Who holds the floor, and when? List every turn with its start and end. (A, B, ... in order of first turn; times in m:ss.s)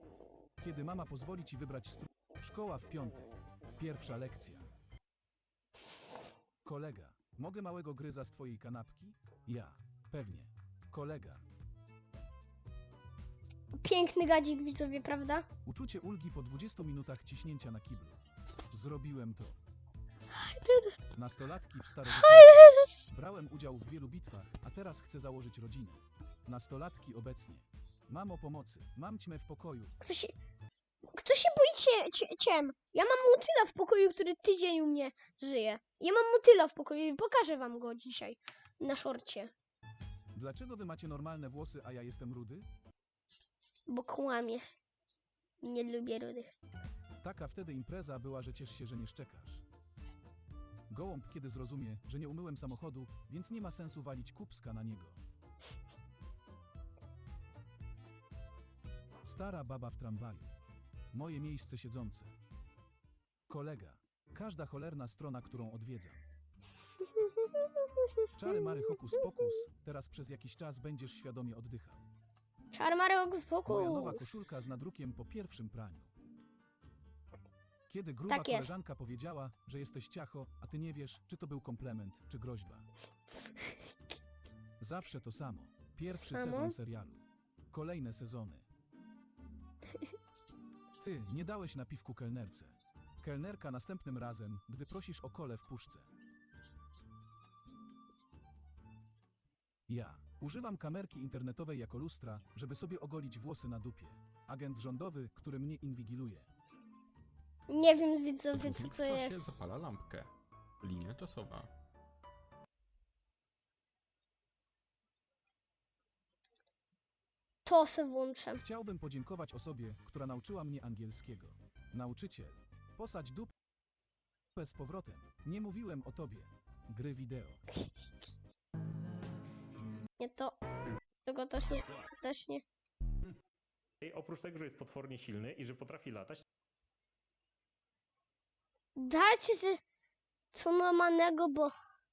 0:00.6-0:04.7 A
0:06.6-0:11.4 A
0:13.7-0:15.5 B
0:15.6-0:18.2 A
0:18.7-0:19.6 A
0:20.3-0:21.0 B
0:21.1-0:30.0 A
0:22.1-0:23.0 B
0:30.0-0:30.3 B
0:31.1-0:39.5 B
0:40.3-0:42.7 A
0:43.9-0:44.8 B
0:45.6-0:46.5 B
0:47.2-0:49.6 A
0:50.9-0:55.2 A
0:59.2-1:00.5 A
1:01.1-1:02.3 A
1:03.5-1:06.2 A
1:07.2-1:08.2 B
1:08.3-1:12.0 A
1:12.7-1:14.2 B
1:13.6-1:16.1 A
1:17.9-1:22.8 A
1:18.3-1:18.7 B
1:24.8-1:28.7 A
1:26.2-1:26.7 B
1:31.0-1:36.1 A
1:39.9-1:46.5 A
1:47.7-1:49.6 B
1:48.5-1:50.3 C
1:50.8-1:51.7 C
1:57.6-1:58.6 B
1:58.6-2:03.5 A
2:04.6-2:07.6 A
2:10.2-2:10.6 B
2:11.2-2:12.6 B
2:14.0-2:16.4 D
2:19.0-2:19.8 B
2:20.5-2:21.7 B